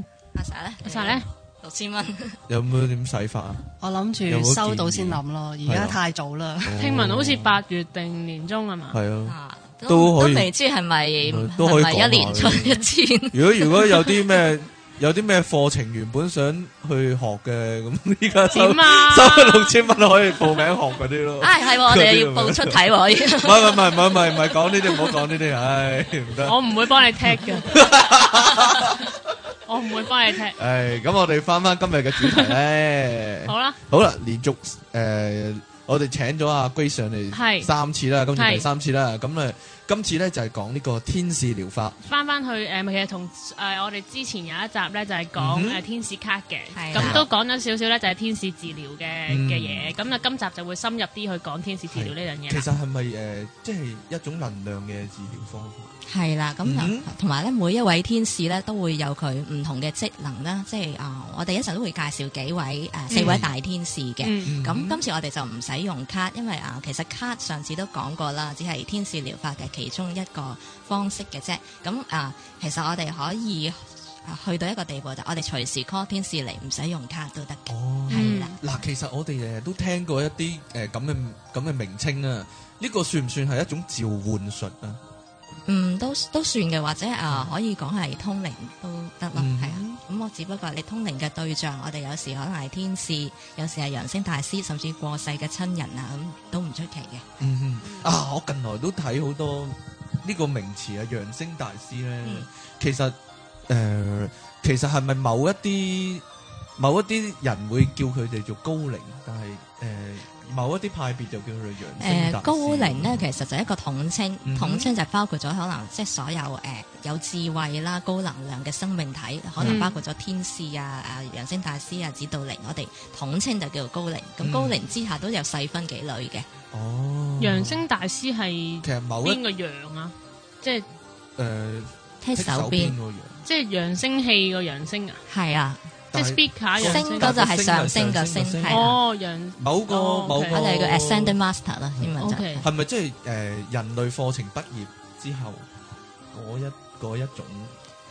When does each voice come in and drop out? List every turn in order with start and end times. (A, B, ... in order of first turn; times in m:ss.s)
0:00.3-0:02.4 A
0:00.8-0:01.2 B
0:02.5-0:03.6 C
0:03.8-0:06.7 D
0:04.3-0:06.0 C
0:06.6-0:07.6 C
0:06.8-0:09.0 B
0:08.9-0:09.4 C
0:09.2-0:14.1 A
0:09.9-0:10.5 C
0:11.2-0:22.8 C
0:18.5-0:19.8 B
0:21.4-0:24.9 A
0:23.4-0:26.6 C
0:26.4-0:27.7 B
0:27.7-0:29.2 C
0:29.7-0:30.6 B
0:30.6-0:42.0 C
0:33.5-0:33.8 B
0:37.3-0:37.7 B
0:38.4-0:38.7 B
0:42.1-0:52.7 B
0:45.4-0:45.8 C
0:46.7-0:47.2 A
0:47.0-0:47.3 C
0:49.3-0:50.0 C
0:51.9-0:55.9 C
0:56.1-1:18.5 A
0:56.6-0:57.1 C
1:03.1-1:03.4 B
1:03.1-1:03.5 C
1:04.2-1:04.5 B
1:04.4-1:05.0 C
1:17.7-1:25.0 C
1:18.1-1:18.6 B
1:25.7-1:37.3 A
1:29.4-1:30.0 C
1:37.4-1:46.2 C
1:42.2-1:42.5 A
1:46.8-1:53.2 C
1:52.0-2:06.5 A
1:54.4-1:54.9 C
1:59.6-1:59.9 C
1:59.6-2:00.0 B
2:04.4-2:04.8 C
2:06.7-2:07.9 C
2:07.4-2:10.9 B
2:08.8-2:09.4 C
2:11.4-2:13.4 C
2:12.2-2:13.0 A
2:13.4-2:15.2 B
2:15.3-2:15.8 A
2:16.1-2:17.4 B
2:16.1-2:19.0 C
2:16.8-2:19.0 A
2:18.7-2:20.6 B
2:19.6-2:21.4 C
2:20.5-2:22.7 A
2:22.2-2:22.6 B
2:22.6-2:25.7 C
2:26.3-2:27.7 C